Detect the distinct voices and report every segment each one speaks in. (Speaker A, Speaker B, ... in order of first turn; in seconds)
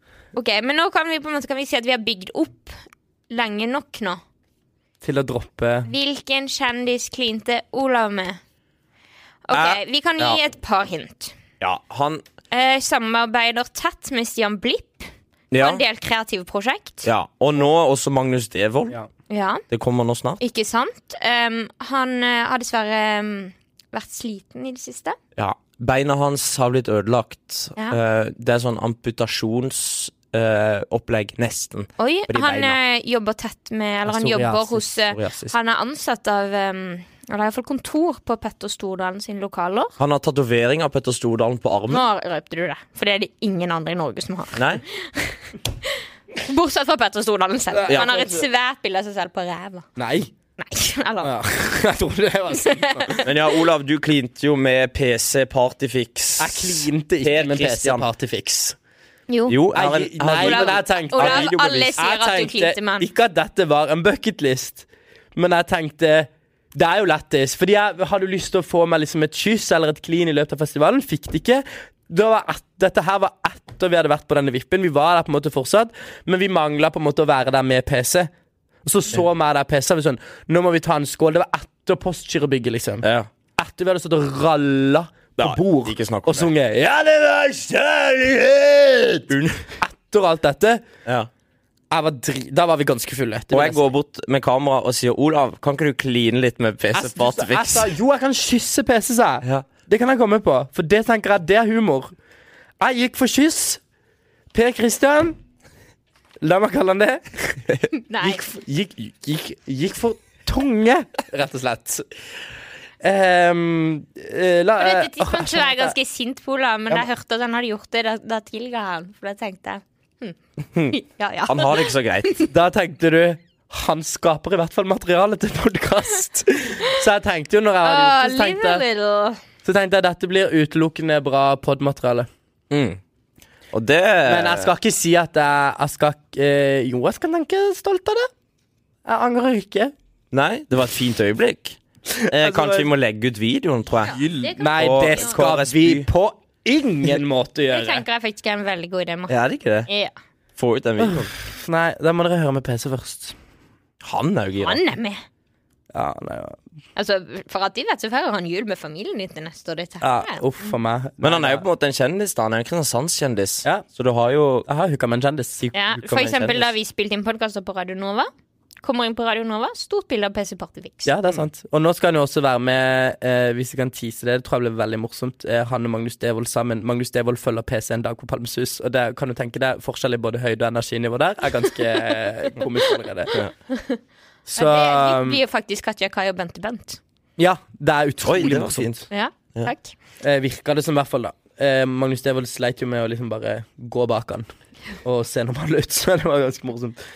Speaker A: 0.3-2.8, 3.3-4.2, 5.8-8.4, 9.5-11.3, 12.5-17.1, 19.3-19.6, 20.4-25.2, 32.0-39.9, 41.9-49.9, 50.6-51.4, 52.5-53.3, 59.3-59.6, 60.4-63.1, 107.9-108.4, 114.8-120.4, 120.9-122.5, 127.8-129.4, 144.1-145.3, 147.7-149.3, 149.9-150.1, 154.6-155.2, 156.9-160.4, 165.7-168.3, 168.8-171.1, 183.7-184.0, 184.6-187.0, 189.1-189.9
Speaker B: 5.0-5.9, 34.1-35.2, 47.7-48.5, 50.0-50.3, 51.2-53.2, 56.4-58.8, 59.7-78.3, 78.8-83.0, 83.6-89.3, 89.8-90.8, 91.9-93.8, 96.9-102.1, 102.8-103.8, 104.5-105.4, 106.4-112.0, 113.0-115.9, 122.5-128.8, 129.6-132.3, 134.3-138.3, 139.0-139.9, 142.1-142.9, 144.1-148.0, 151.0-153.3, 155.9-156.6, 160.0-161.6, 164.7-165.7, 171.0-183.4, 184.4-185.4, 187.4-189.0, 190.2-194.5, 195.0-197.0
Speaker C: 9.5-10.4, 11.6-12.2, 15.5-15.8, 17.0-18.9, 19.7-20.4, 25.4-32.8, 35.2-35.5, 40.0-42.0, 44.5-44.8, 53.2-58.1, 59.5-61.9, 83.0-83.3, 85.4-86.5, 89.3-89.7, 91.0-91.3, 93.5-97.9, 121.5-122.3, 132.7-133.0, 133.7-134.7, 140.3-146.1, 149.3-149.9, 150.6-151.3, 154.0-154.8, 161.2-164.7, 165.9-166.7, 188.2-189.7